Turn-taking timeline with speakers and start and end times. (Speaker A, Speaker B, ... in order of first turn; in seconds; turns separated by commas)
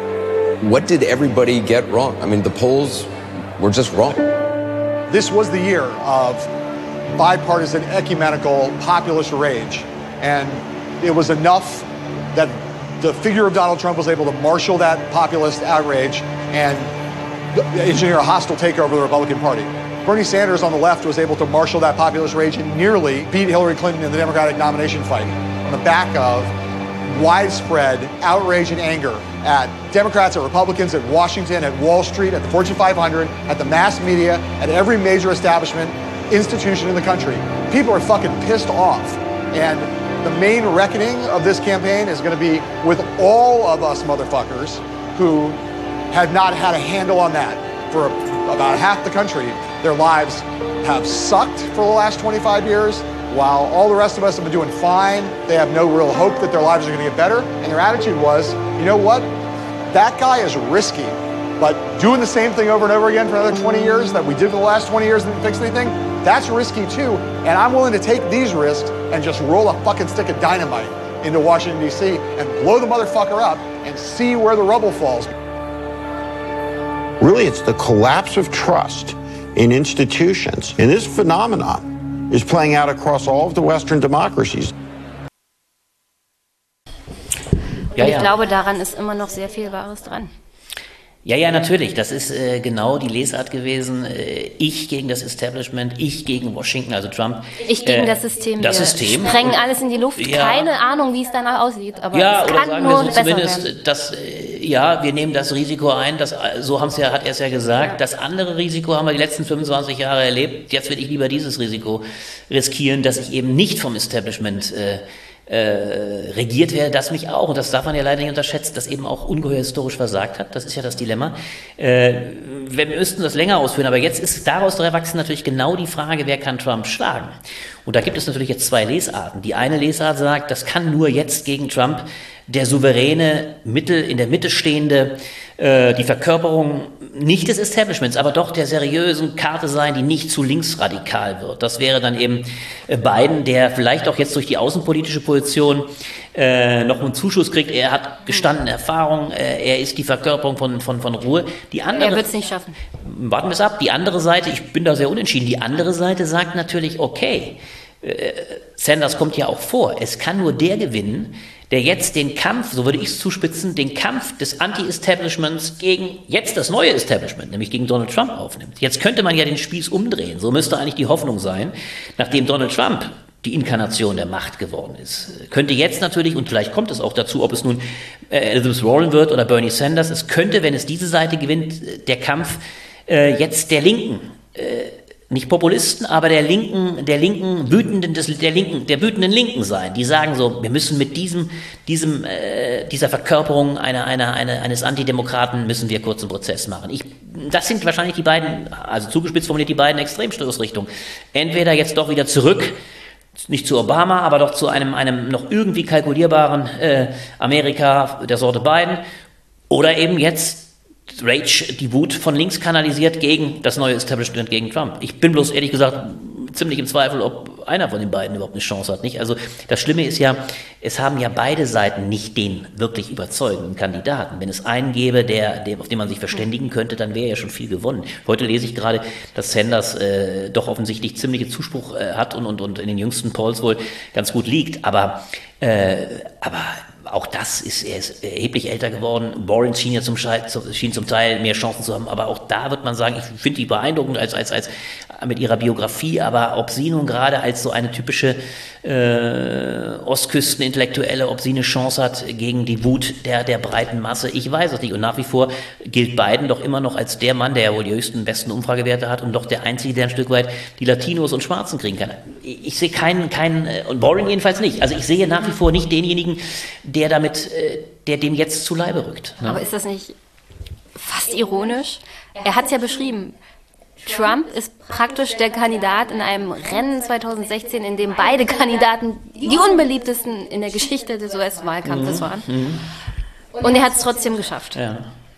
Speaker A: 0.6-4.3, Speaker B: 5.1-6.5, Speaker B: 7.2-16.9, Speaker B: 17.5-26.5, Speaker B: 27.1-59.3, Speaker B: 59.9-75.3, Speaker C: 77.2-84.7, Speaker D: 87.9-90.3, Speaker E: 88.0-88.3, Speaker E: 91.2-99.6, Speaker D: 97.6-103.7, Speaker E: 100.2-100.7, Speaker E: 102.1-127.3, Speaker E: 127.8-152.3, Speaker D: 151.9-152.8, Speaker E: 153.0-202.8, Speaker E: 203.4-209.0, Speaker E: 209.7-269.6, Speaker D: 269.4-270.1, Speaker D: 270.9-273.4, Speaker D: 274.0-282.6, Speaker E: 281.9-282.9, Speaker D: 283.6-284.8, Speaker E: 284.7-285.1